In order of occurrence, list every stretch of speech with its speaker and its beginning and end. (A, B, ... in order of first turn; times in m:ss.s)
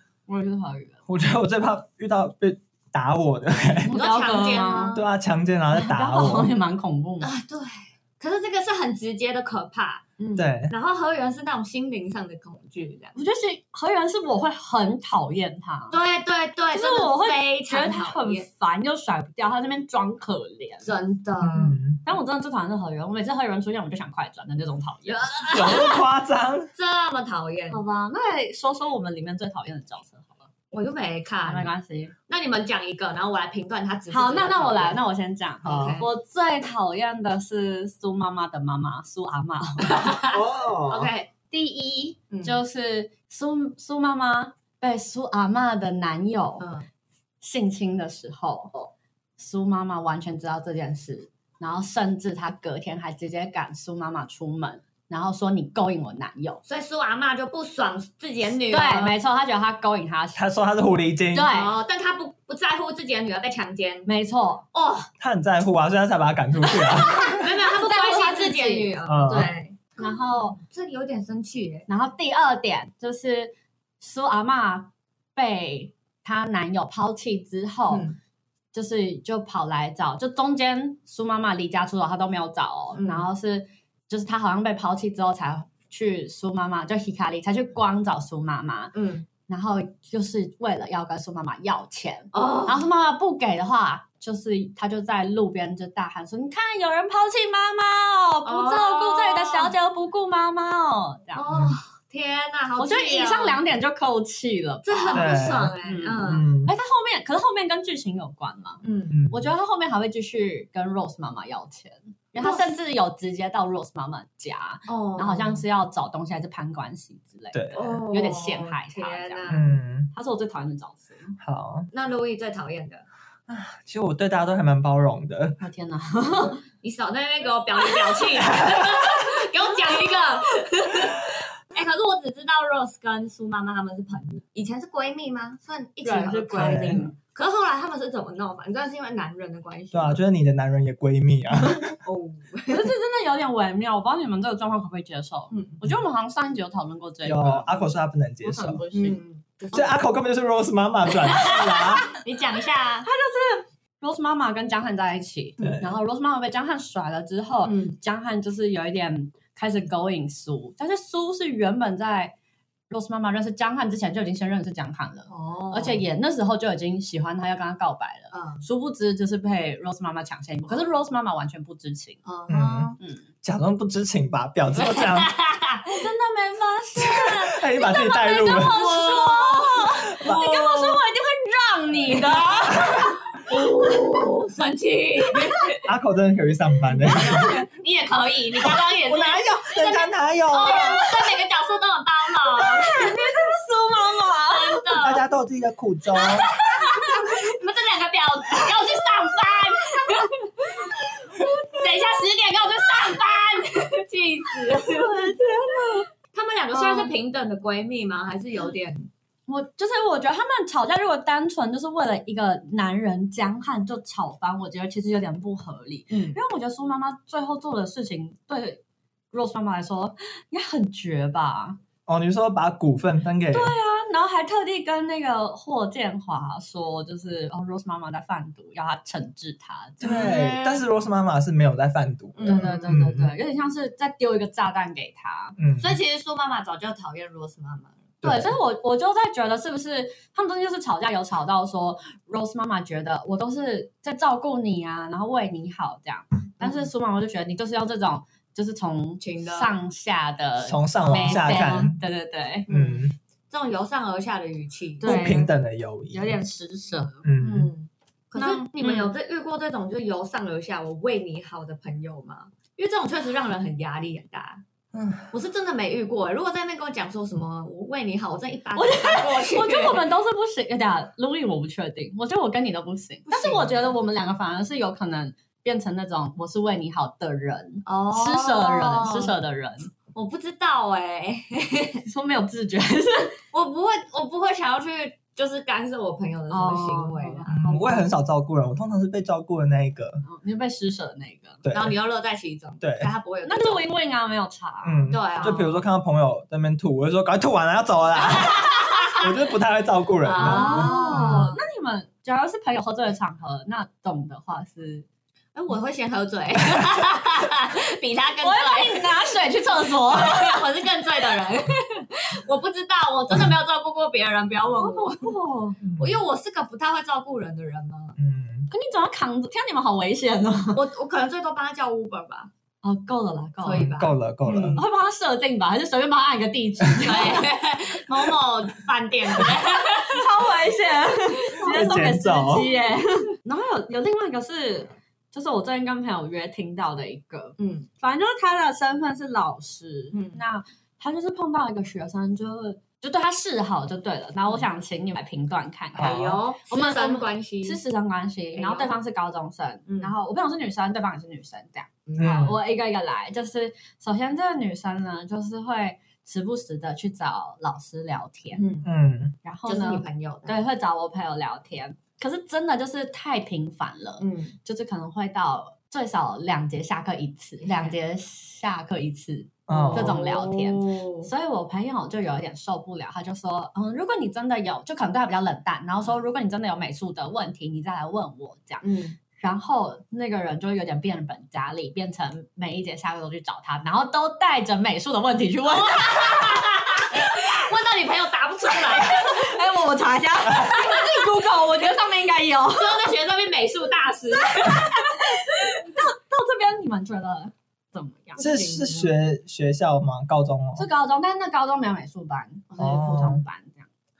0:00.3-0:01.0 A
0:01.1-0:03.9 B
0:03.8-0:05.0 A
0:03.9-0:05.0 C
0:04.9-0:06.5 B
0:05.7-0:07.3 A
0:07.2-0:10.1 C
0:10.2-0:10.5 A
0:10.4-0:10.7 B
0:10.7-0:13.2 C
0:13.1-0:16.0 A
0:15.9-0:18.4 C
0:16.7-0:20.9 A
0:20.8-0:21.8 C
0:21.4-0:22.0 B
0:22.0-0:25.7 A
0:25.0-0:26.0 C
0:25.5-0:26.7 B
0:26.8-0:27.8 C
0:27.7-0:30.4 A
0:30.7-0:31.7 C
0:31.4-0:32.1 A
0:32.3-0:35.0 C
0:34.1-0:40.2 A
0:35.6-0:36.1 C
0:35.6-0:36.0 B
0:39.8-0:41.3 C
0:40.3-0:41.1 B
0:41.5-0:46.7 A
0:42.3-0:42.6 C
0:46.6-0:46.8 C
0:47.4-0:48.7 A
0:49.4-0:56.6 A
0:56.6-0:59.2 C
0:58.7-1:00.4 A
1:00.3-1:01.5 B
1:01.3-1:01.7 A
1:01.5-1:04.1 C
1:04.0-1:04.6 A
1:04.7-1:05.1 C
1:05.2-1:07.3 B
1:06.7-1:09.5 A
1:07.2-1:11.9 C
1:09.0-1:09.5 B
1:10.0-1:10.6 A
1:11.9-1:18.1 A
1:17.9-1:18.2 C
1:18.7-1:28.9 A
1:22.9-1:23.2 C
1:28.9-1:29.2 C
1:29.5-1:41.4 A
1:32.3-1:32.8 C
1:38.4-1:39.7 C
1:41.3-1:43.6 C
1:41.5-1:41.8 B
1:42.8-2:01.4 A
1:44.8-1:46.5 C
1:45.1-1:46.7 B
1:48.8-1:49.2 C
1:49.1-1:49.5 B
1:52.4-1:52.7 C
1:54.9-1:55.6 C
1:57.5-1:58.0 B
1:57.7-1:59.7 C
1:59.5-2:00.1 B
2:01.4-2:01.9 B
2:01.9-2:03.0 C
2:03.5-2:05.6 B
2:05.6-2:06.6 A
2:06.8-2:20.2 C
2:16.0-2:17.1 A
2:16.6-2:17.1 B
2:19.9-2:22.0 B
2:22.0-2:22.9 C
2:22.7-2:27.8 A
2:25.5-2:25.8 C
2:27.2-2:28.8 B
2:28.4-2:29.2 A
2:28.9-2:30.0 C
2:29.7-2:32.0 B
2:31.2-2:33.1 C
2:33.0-2:42.3 A
2:35.6-2:35.9 B
2:37.6-2:38.0 C
2:42.9-2:52.2 A
2:45.3-2:46.0 C
2:48.3-2:48.6 C
2:52.2-2:53.0 C
2:52.5-2:55.3 B
2:54.8-2:55.9 C
2:55.9-3:03.1 A
2:57.0-2:58.8 B
2:58.6-3:01.0 C
3:02.1-3:02.8 C
3:02.7-3:03.1 B
3:03.4-3:05.8 C
3:05.8-3:07.6 B
3:07.1-3:13.2 C
3:08.6-3:11.1 B
3:10.6-3:11.3 A
3:12.5-3:14.8 A
3:14.5-3:15.2 C
3:15.0-3:16.5 B
3:16.2-3:21.0 C
3:16.7-3:17.2 A
3:21.3-3:22.2 A
3:21.7-3:25.3 C
3:24.7-3:26.1 A
3:26.3-3:29.1 C
3:26.7-3:27.1 A
3:29.5-3:41.8 A
3:36.1-3:36.4 C
3:42.1-3:43.7 B
3:43.5-3:50.4 A
3:50.0-3:53.3 B
3:50.0-3:50.8 C
3:52.3-3:53.0 C
3:52.4-3:55.6 A
3:55.6-3:56.0 B
3:55.8-3:58.0 C
3:58.2-3:58.5 B
3:58.2-4:12.7 A
4:06.6-4:06.9 C
4:09.2-4:09.7 C
4:10.6-4:12.0 B
4:11.1-4:11.9 C
4:12.7-4:13.1 B
4:12.7-4:15.4 C
4:15.0-4:15.5 A
4:15.0-4:16.4 B
4:16.1-4:17.2 A
4:17.2-4:17.7 B
4:17.4-4:24.6 C
4:18.3-4:19.1 A
4:24.9-4:25.3 B
4:25.3-4:30.0 C
4:28.7-4:39.9 A
4:33.3-4:33.9 C
4:37.8-4:39.3 C
4:40.1-4:42.0 C
4:42.0-4:43.4 A
4:43.5-4:47.9 C
4:46.5-4:48.1 A
4:47.5-4:50.2 B
4:50.2-4:51.6 A
4:51.6-4:52.0 B
4:51.7-4:53.9 C
4:52.8-4:53.1 B
4:53.4-4:55.1 A
4:54.8-5:01.5 B
4:55.1-4:55.8 C
4:58.4-4:59.2 C
5:00.2-5:01.6 C
5:00.4-5:05.0 A
5:05.5-5:09.1 C
5:08.4-5:10.6 A
5:10.1-5:15.4 C
5:14.8-5:15.8 A
5:15.8-5:16.2 B
5:16.0-5:18.2 C
5:18.2-5:18.7 B
5:18.7-5:20.8 A
5:20.7-5:22.5 C
5:22.8-5:23.9 A
5:23.6-5:24.8 C
5:23.7-5:24.8 B
5:24.7-5:27.5 A
5:27.0-5:30.3 C
5:30.0-5:58.6 A
5:31.6-5:32.7 B
5:37.6-5:37.9 C
5:40.1-5:40.4 C
5:46.0-5:46.4 B
5:46.0-5:47.8 C
5:48.5-5:48.9 C
5:49.9-5:50.1 C
5:52.2-5:52.6 B
5:58.5-5:58.9 C
5:58.8-5:59.3 B
5:59.4-6:18.8 A
5:59.6-6:00.6 C
6:04.2-6:04.5 C
6:07.6-6:08.0 C
6:09.7-6:10.2 B
6:09.7-6:11.3 C
6:18.8-6:19.2 C
6:19.4-6:26.6 A
6:25.7-6:29.5 C
6:28.9-6:33.0 A
6:30.7-6:31.0 C
6:32.7-6:35.2 C
6:34.7-6:38.4 A
6:38.4-6:39.1 C
6:38.4-6:40.9 B
6:40.8-6:43.9 A
6:42.8-6:43.4 B